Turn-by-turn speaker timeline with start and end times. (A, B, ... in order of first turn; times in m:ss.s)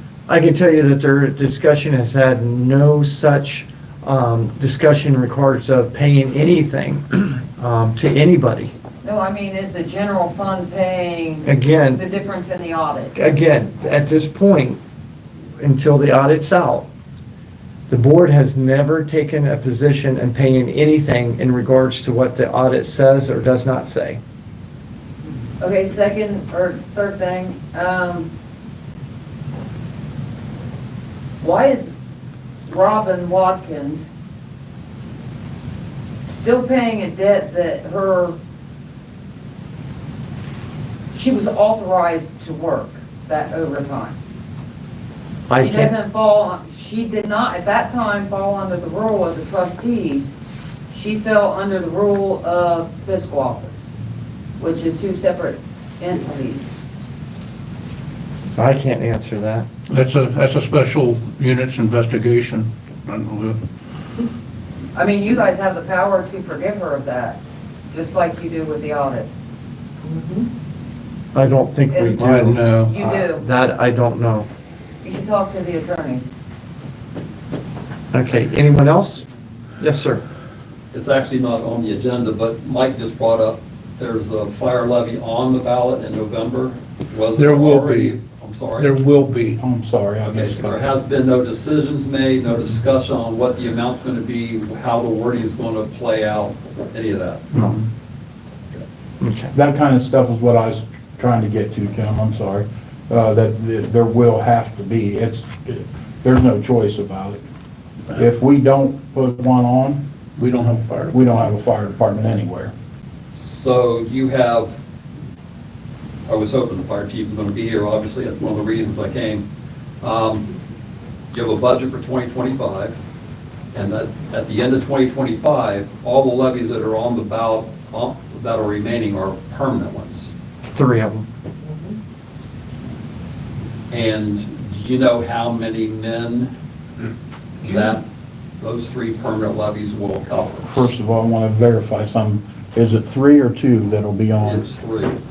0:00.3-0:08.7 A
0:09.0-0:13.2 B
0:11.4-0:12.0 A
0:13.2-0:14.8 A
0:15.6-0:16.9 A
0:17.9-0:24.2 A
0:25.6-0:28.3 B
0:31.4-0:31.9 B
0:32.7-0:34.1 B
0:36.3-0:38.4 B
0:41.1-0:44.2 B
0:45.5-0:45.9 A
0:45.6-0:50.3 B
0:50.9-0:53.9 B
0:54.6-0:56.8 B
0:58.6-0:59.7 A
0:59.9-1:03.6 C
1:05.0-1:09.3 B
1:11.3-1:14.5 A
1:11.9-1:12.2 B
1:12.1-1:13.0 C
1:12.8-1:13.4 B
1:15.0-1:16.3 B
1:18.1-1:19.2 A
1:19.8-1:20.2 A
1:20.9-1:29.0 D
1:27.3-1:28.2 C
1:28.8-1:29.6 C
1:29.6-1:30.9 E
1:30.2-1:37.7 D
1:39.2-1:39.5 A
1:39.5-1:47.4 E
1:48.1-1:50.0 E
1:50.4-1:51.2 C
1:51.1-1:52.7 E
1:53.3-1:54.8 D
1:56.3-1:59.4 D
2:00.0-2:00.5 D
2:01.3-2:03.0 D
2:03.7-2:10.3 D
2:10.7-2:11.3 A
2:13.9-2:16.5 D
2:17.6-2:18.0 D
2:18.6-2:20.8 D
2:20.6-2:24.6 E
2:24.4-2:25.2 D